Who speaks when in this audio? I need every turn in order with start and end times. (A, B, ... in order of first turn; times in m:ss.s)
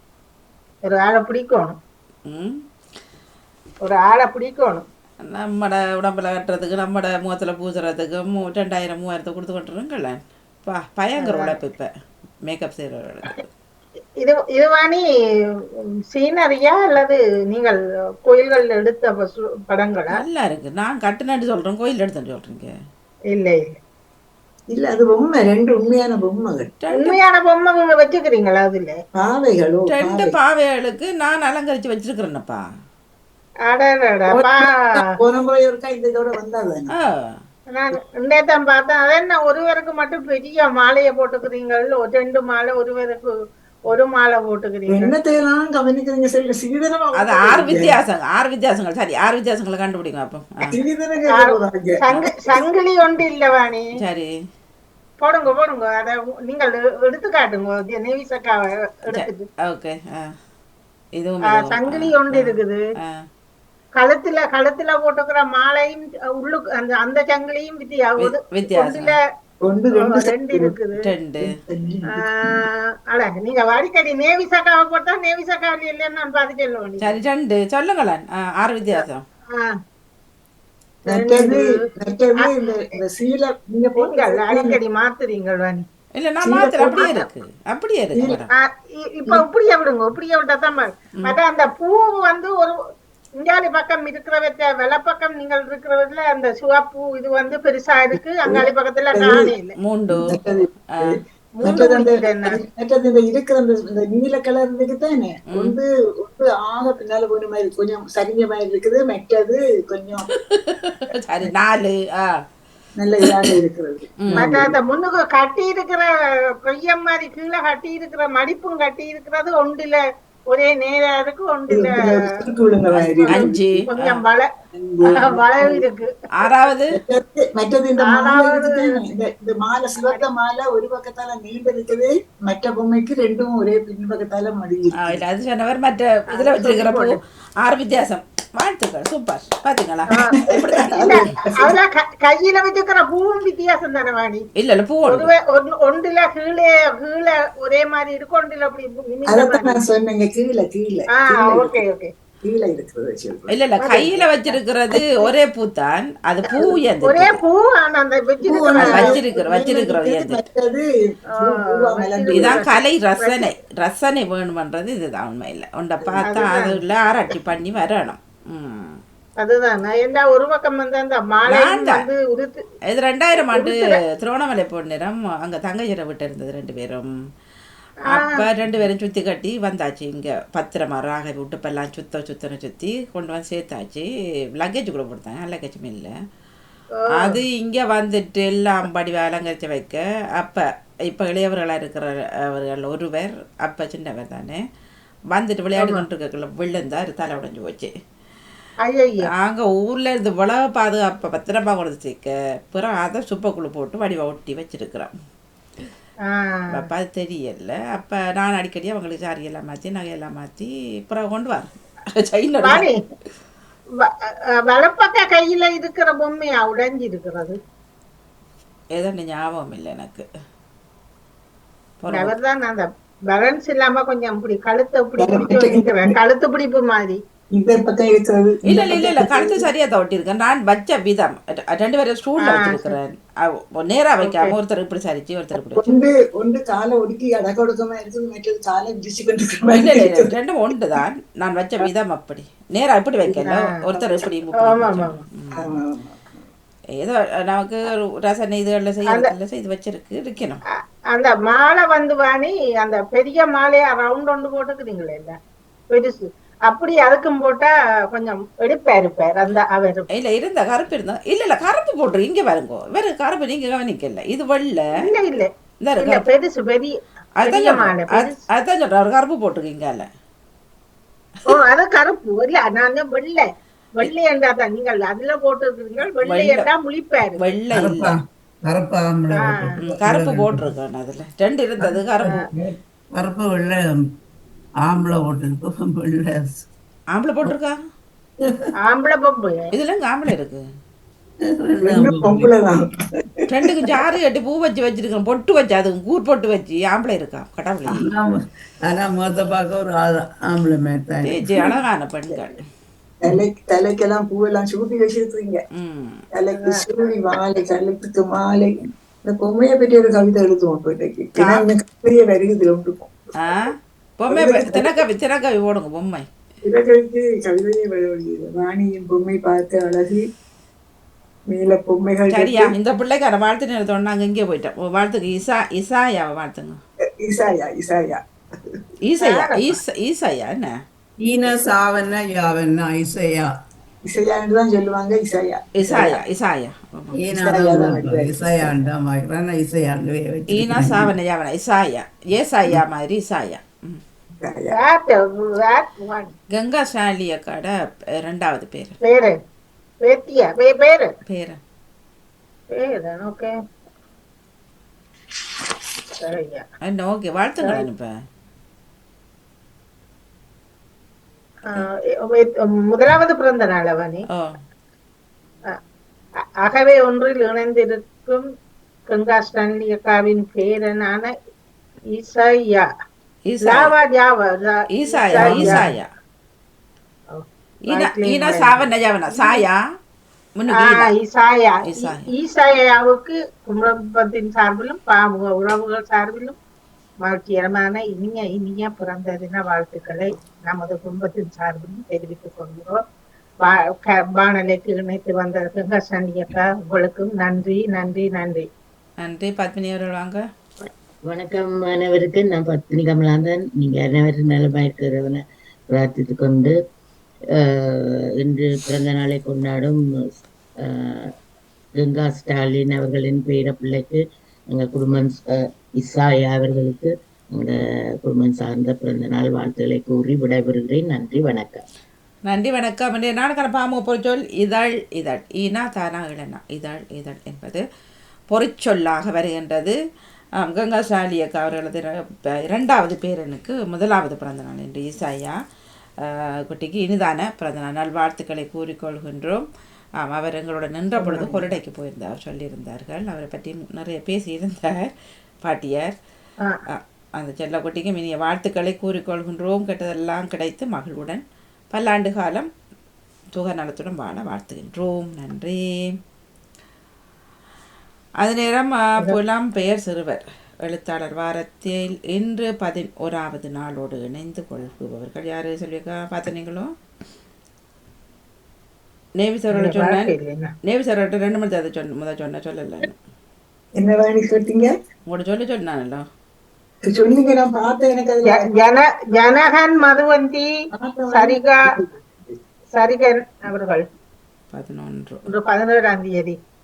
0:00.8-0:01.8 A
0:02.3-0:02.6 B
0:03.8-0:04.8 A
0:05.2-0:11.9 B
0:11.2-0:11.6 A
0:12.5-0:13.5 B
0:14.2-0:15.0 A
0:16.1-0:20.2 A
0:20.2-0:22.7 B
0:23.3-0:23.6 A
0:24.7-0:26.7 C
0:26.8-0:27.2 B
0:26.9-0:29.0 A
0:29.2-0:30.4 C
0:29.9-0:32.6 B
0:33.7-0:35.1 A
0:34.3-0:36.9 C
0:37.0-0:37.4 B
0:37.7-0:43.3 A
0:43.9-0:45.2 A
0:44.9-0:48.0 C
0:47.2-0:50.6 B
0:50.6-0:52.5 C
0:51.3-0:53.9 A
0:54.0-0:54.3 B
0:55.2-0:59.5 A
0:59.1-1:00.2 B
1:01.2-1:03.1 B
1:01.5-1:02.8 A
1:04.0-1:09.2 A
1:08.2-1:09.2 B
1:09.7-1:10.8 C
1:09.9-1:11.0 A
1:11.0-1:11.5 B
1:11.4-1:12.7 C
1:12.1-1:17.2 A
1:17.0-1:19.2 B
1:21.1-1:24.8 C
1:21.1-1:21.6 A
1:24.0-1:25.8 A
1:26.2-1:28.5 B
1:26.4-1:27.1 C
1:26.9-1:27.3 A
1:28.2-1:28.4 C
1:28.5-1:32.8 A
1:33.4-1:39.8 A
1:38.4-1:39.5 C
1:39.8-1:40.2 B
1:40.1-1:50.3 C
1:41.6-1:42.6 A
1:50.5-1:52.4 B
1:53.0-1:54.8 C
1:54.2-1:54.5 B
1:54.3-1:56.1 A
1:56.6-2:04.5 A
2:01.7-2:03.5 C
2:03.3-2:04.2 B
2:04.7-2:05.9 C
2:05.1-2:06.5 A
2:06.4-2:06.9 B
2:06.9-2:15.2 C
2:08.0-2:09.0 A
2:15.0-2:21.3 B
2:16.3-2:17.2 A
2:20.3-2:21.8 C
2:21.0-2:24.4 A
2:24.6-2:25.3 B
2:25.0-2:29.8 A
2:29.3-2:31.8 C
2:31.2-2:32.1 A
2:32.4-2:33.6 C
2:33.5-2:37.4 B
2:33.8-2:34.6 A
2:36.6-2:39.2 A
2:38.4-2:40.8 C
2:38.8-2:40.4 B
2:41.4-2:42.6 C
2:41.4-2:43.5 A
2:42.3-2:49.0 B
2:46.3-2:46.8 A
2:49.4-2:52.6 A
2:51.5-2:52.0 B
2:52.9-2:57.1 B
2:53.4-2:54.0 A
2:58.1-2:58.5 A
2:58.1-3:04.1 B
3:04.6-3:06.1 B
3:07.0-3:07.4 A
3:07.2-3:14.6 B
3:15.3-3:17.9 B
3:15.8-3:16.0 A
3:18.9-3:19.3 A
3:19.3-3:25.1 B
3:26.3-3:26.8 A
3:26.7-3:32.8 B
3:32.6-3:33.0 A
3:34.6-3:37.6 A
3:39.0-3:40.3 B
3:42.0-3:42.3 B
3:42.1-3:47.2 A
3:45.2-3:46.2 C
3:47.5-3:49.7 C
3:48.7-3:53.2 B
3:52.4-3:53.0 A
3:53.8-3:55.8 B
3:54.2-3:54.5 A
3:55.7-4:00.3 C
3:59.7-4:05.7 B
4:03.3-4:03.7 A
4:04.6-4:05.2 A
4:05.6-4:06.4 C
4:07.0-4:10.6 B
4:09.1-4:09.3 A
4:11.1-4:15.4 A
4:15.9-4:20.1 A
4:20.1-4:24.8 B
4:25.0-4:28.4 A
4:25.8-4:26.2 B
4:27.4-4:30.1 B
4:31.5-4:37.4 A
4:36.2-4:36.7 B
4:37.4-4:38.1 B
4:37.7-4:40.7 D
4:39.3-4:39.8 A
4:39.8-4:42.4 B
4:41.9-4:44.0 D
4:44.8-4:46.7 D
4:47.1-4:47.8 B
4:48.4-4:48.7 D
4:48.8-4:49.7 A
4:49.7-4:50.6 B
4:51.5-4:52.5 D
4:51.8-4:52.8 C
4:53.5-4:58.0 B
4:57.9-5:01.4 D
5:01.2-5:02.6 B
5:03.2-5:05.6 C
5:05.8-5:06.2 B
5:06.3-5:13.6 C
5:06.5-5:06.8 A
5:11.4-5:11.7 B
5:13.4-5:16.2 B
5:14.3-5:15.0 C
5:16.6-5:20.2 C
5:21.5-5:22.7 C
5:22.3-5:26.8 B
5:27.2-5:28.8 C
5:29.0-5:30.7 B
5:29.2-5:29.8 A
5:31.2-5:33.5 D
5:34.1-5:36.2 C
5:35.8-5:37.1 B
5:37.2-5:41.1 D
5:37.4-5:38.8 C
5:40.5-5:44.0 B
5:44.4-5:44.8 C
5:44.7-5:46.3 A
5:46.5-5:49.0 B
5:49.0-5:49.4 A
5:50.0-5:51.1 A
5:51.3-5:51.6 B
5:52.7-5:53.5 A
5:56.2-5:56.6 A
5:56.8-5:58.1 B
5:57.6-5:57.9 A
6:01.7-6:04.2 A
6:06.6-6:08.4 A
6:09.1-6:11.3 A
6:12.1-6:12.8 A
6:13.4-6:13.9 B
6:13.7-6:15.9 A
6:14.9-6:16.1 B
6:17.3-6:19.6 A
6:17.9-6:19.8 B
6:20.6-6:21.1 B
6:20.8-6:26.6 A
6:21.8-6:22.3 B
6:27.2-6:33.0 A
6:33.6-6:38.7 A
6:39.2-6:40.4 B
6:41.2-6:46.7 E
6:47.5-6:50.0 E
6:50.8-6:51.3 E
6:52.0-7:01.8 E
7:02.5-7:07.8 B
7:08.5-7:10.0 B
7:10.6-7:15.6 B
7:16.2-7:19.7 B
7:20.2-7:25.1 B
7:21.2-7:21.7 A
7:25.6-7:26.1 B
7:26.9-7:32.7 B
7:33.5-7:35.8 B
7:38.4-7:46.9 B
7:49.4-7:50.3 B
7:49.7-7:50.7 A
7:50.9-7:53.2 B
7:54.0-7:54.9 C
7:55.3-7:56.2 B
7:57.0-7:58.7 C
7:58.5-8:00.7 A
8:00.9-8:02.6 C
8:01.3-8:01.8 A
8:02.9-8:04.0 A
8:04.7-8:05.5 B
8:05.5-8:06.6 A